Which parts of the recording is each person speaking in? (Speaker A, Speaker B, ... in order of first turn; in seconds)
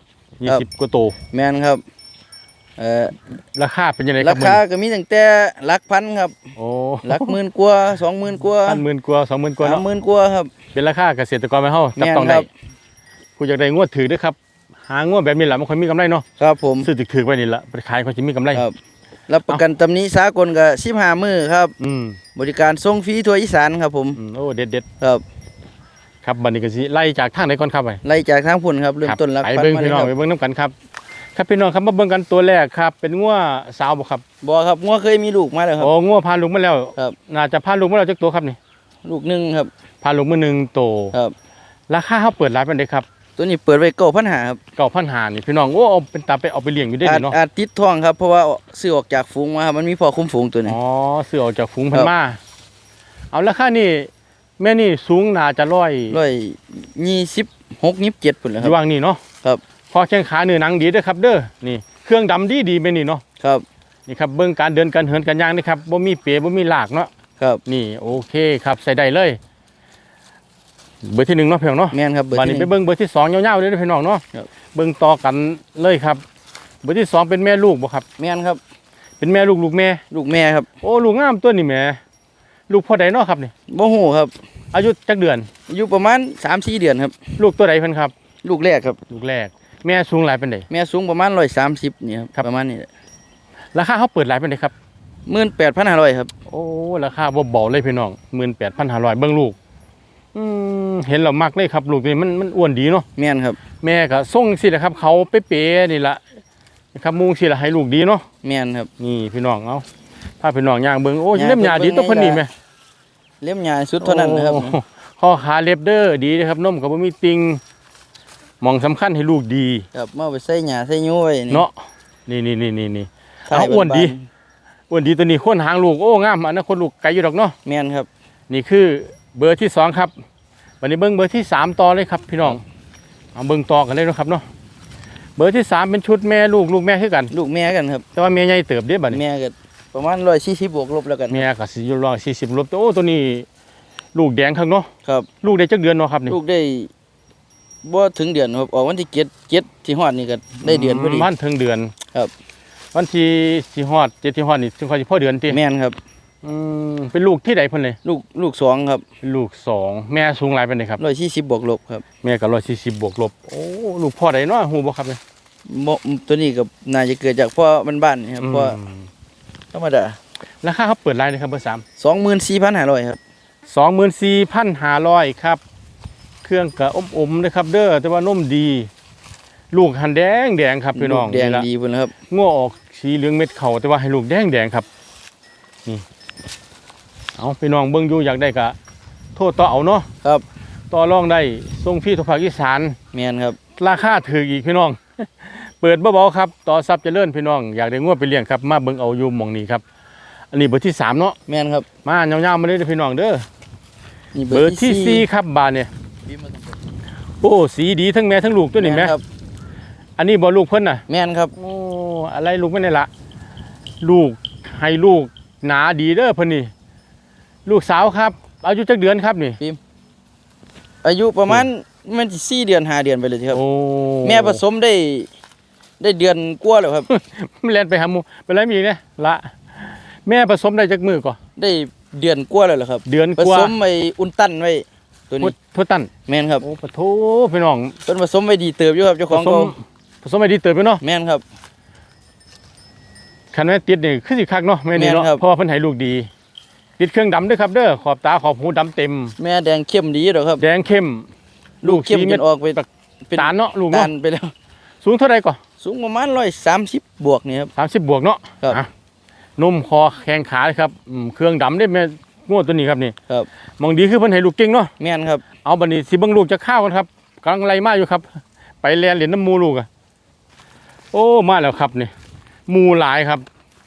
Speaker A: 0.4-1.2, 3.5-4.6, 6.6-7.4, 8.7-9.8, 10.8-12.5, 13.4-16.2, 16.8-18.6, 21.8-22.2, 24.2-24.9, 26.2-28.0, 29.0-30.7, 31.4-34.2, 35.8-38.6, 40.0-41.1, 41.9-43.1, 44.8-47.4, 50.7-52.4, 53.3-56.2, 58.6-59.2, 59.9-63.2, 64.1-67.1, 67.7-69.4, 71.0-74.2, 74.7-76.2, 76.8-78.0, 79.2-80.0, 80.8-82.0, 82.7-83.5, 84.7-85.5, 87.4-88.1, 89.1-90.7, 93.7-94.7, 96.5-99.6, 100.3-103.1, 103.8-106.2, 107.0-108.2, 109.0-109.8, 110.4-112.5, 114.0-117.6, 118.6-119.9, 121.5-124.1, 124.9-127.6, 128.5-130.1, 130.8-132.6, 133.3-134.5, 135.4-137.3, 138.2-139.2, 141.3-143.5, 144.1-144.9, 145.4-146.4, 150.6-151.9, 152.9-155.6, 156.4-158.0, 159.2-161.0, 162.2-165.2, 168.4-169.1, 170.6-171.8, 173.7-175.6, 176.4-178.9, 179.7-181.7, 182.3-184.9, 187.4-188.8, 189.4-190.1, 190.9-193.0, 193.8-199.8, 200.5-201.4, 202.1-203.4, 204.5-205.9, 207.4-209.1, 210.2-211.0, 211.6-213.1, 214.0-216.7, 217.7-219.6, 223.5-224.6, 227.1-231.4, 233.1-233.7, 235.4-236.1, 236.6-238.0, 239.3-241.0, 243.5-246.3, 247.0-249.4, 250.6-251.3, 251.8-254.1, 255.0-255.6, 257.8-258.9, 259.6-263.1, 263.8-264.9, 265.6-269.9, 271.1-272.1, 272.7-273.4
Speaker B: 1.3-1.8, 2.8-3.1, 4.2-6.4, 7.0-8.8, 9.6-10.5, 12.0-12.5, 16.4-16.9, 19.3-21.8, 22.4-24.2, 28.0-30.1, 34.4-35.9, 39.1-39.7, 43.4-44.6, 47.0-50.8, 56.1-58.8, 71.9-72.7, 78.2-78.6, 80.1-80.7, 83.7-84.3, 85.7-87.3, 88.4-89.0, 90.7-92.9, 95.3-96.3, 103.2-103.6, 108.4-108.9, 111.3-112.5, 113.4-114.8, 119.9-121.7, 123.5-124.3, 127.7-128.1, 137.3-138.1, 139.1-141.4, 146.3-146.9, 147.8-151.3, 155.5-156.0, 158.0-159.0, 161.0-162.1, 165.7-168.8, 169.7-170.2, 172.0-173.2, 180.9-182.1, 193.1-193.6, 201.5-201.9, 204.3-205.2, 206.3-206.8, 208.8-209.2, 211.1-211.5, 221.0-223.6, 224.2-225.3, 226.0-227.1, 231.6-235.5, 236.3-236.7, 238.1-239.7, 241.0-241.4, 244.9-245.4, 249.4-250.6, 251.8-254.5, 255.8-257.7, 265.0-265.4